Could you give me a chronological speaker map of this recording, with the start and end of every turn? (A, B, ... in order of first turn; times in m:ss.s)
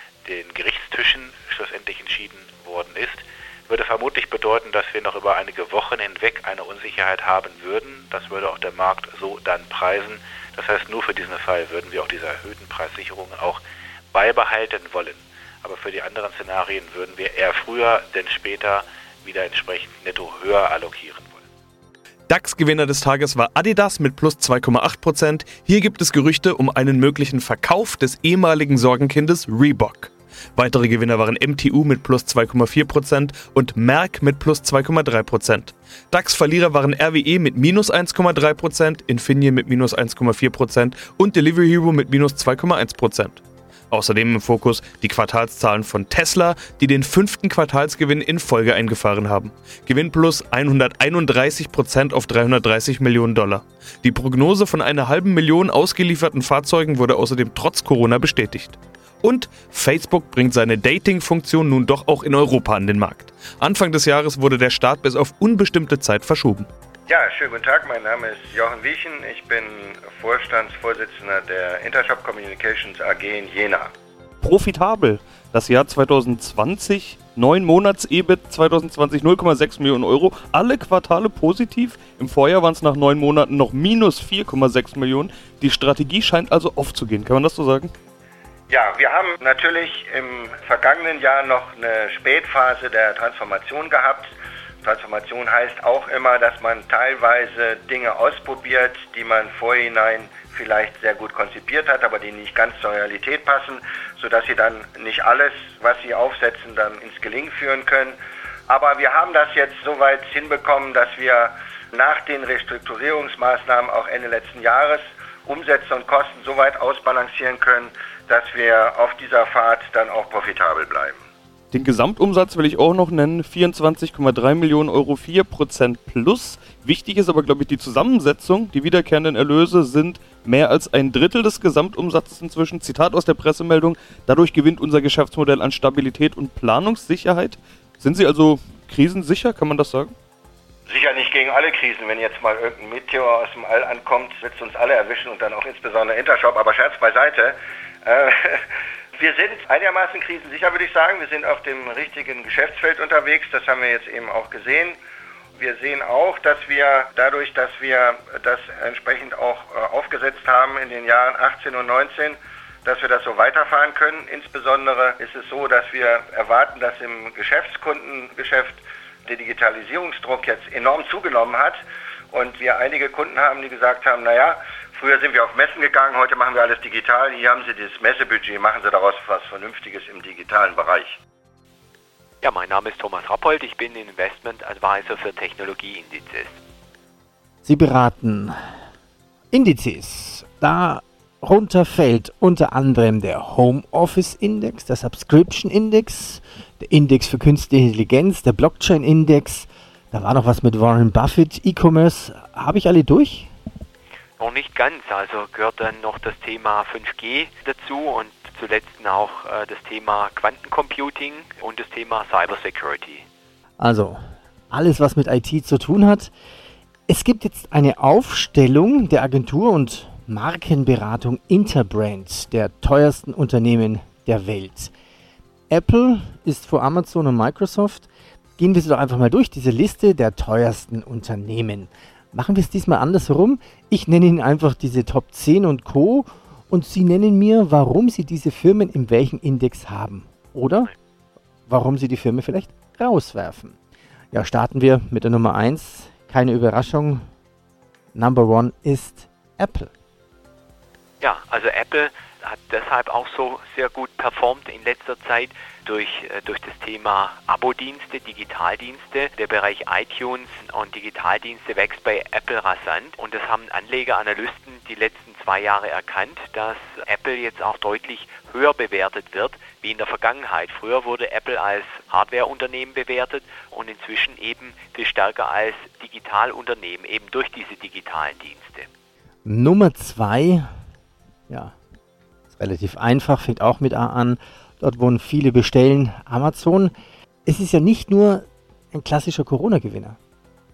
0:00.2-0:13.6 A
0:14.1-0:21.4 A
0:22.3-1:06.7 B
1:07.1-1:13.9 C
1:14.4-1:27.9 B
1:28.7-2:01.2 C
2:01.7-2:20.1 B
2:20.9-2:28.6 C
2:29.2-2:35.0 C
2:35.6-3:01.2 C
3:02.4-3:06.5 D
3:07.6-3:08.6 E
3:09.5-3:23.5 E
3:24.4-3:33.2 D
3:33.8-3:34.2 E
3:34.7-3:36.3 E
3:37.1-3:44.9 E
3:45.7-3:48.1 E
3:48.6-4:00.9 E
4:01.7-4:03.8 E
4:04.3-4:07.2 E
4:08.1-4:09.9 E
4:11.2-4:38.9 D
4:39.4-4:40.7 E
4:41.5-4:41.8 E
4:42.5-4:46.9 E
4:47.5-4:50.2 E